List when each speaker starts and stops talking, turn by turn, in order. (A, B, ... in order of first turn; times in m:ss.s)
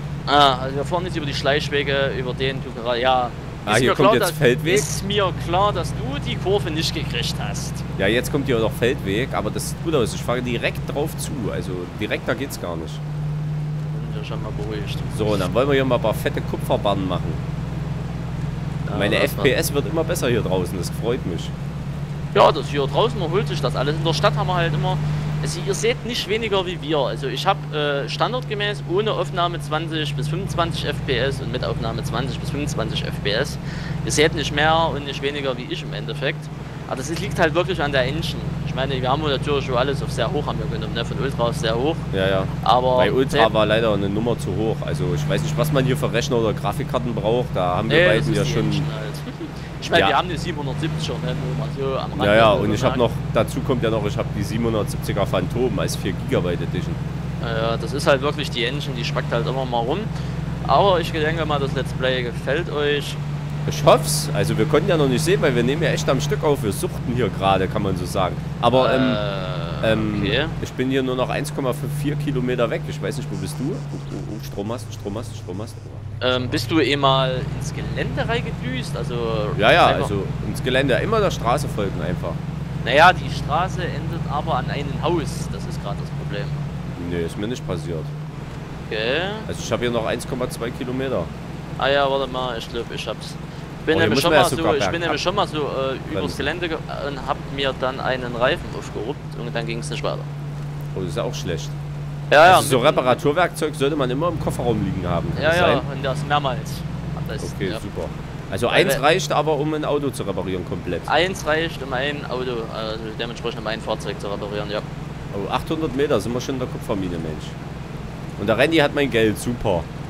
0:00.3-0:07.8 A
0:03.6-0:04.9 B
0:08.0-0:13.0 B
0:13.8-0:15.1 A
0:15.1-0:17.4 B
0:18.8-0:19.5 A
0:18.9-0:21.5 B
0:22.3-0:42.1 A
0:42.1-0:48.9 B
0:42.6-0:43.5 A
0:47.9-0:53.0 A
0:49.9-0:50.2 B
0:52.1-0:57.0 B
0:57.4-1:00.1 A
1:00.6-1:03.2 A
1:03.6-1:09.2 B
1:08.7-1:10.6 A
1:09.8-1:16.6 B
1:16.2-1:20.1 A
1:19.6-1:22.4 B
1:22.8-1:26.6 A
1:26.9-1:28.1 B
1:28.9-1:29.5 A
1:29.5-1:31.3 B
1:31.8-1:40.3 A
1:33.9-1:35.2 B
1:36.1-1:36.4 B
1:40.9-1:41.8 B
1:42.3-1:43.2 A
1:42.4-1:45.8 B
1:45.3-1:47.8 A
1:47.4-1:51.1 B
1:48.7-1:49.0 A
1:51.1-1:54.8 A
1:55.3-1:57.6 B
1:58.4-1:59.9 B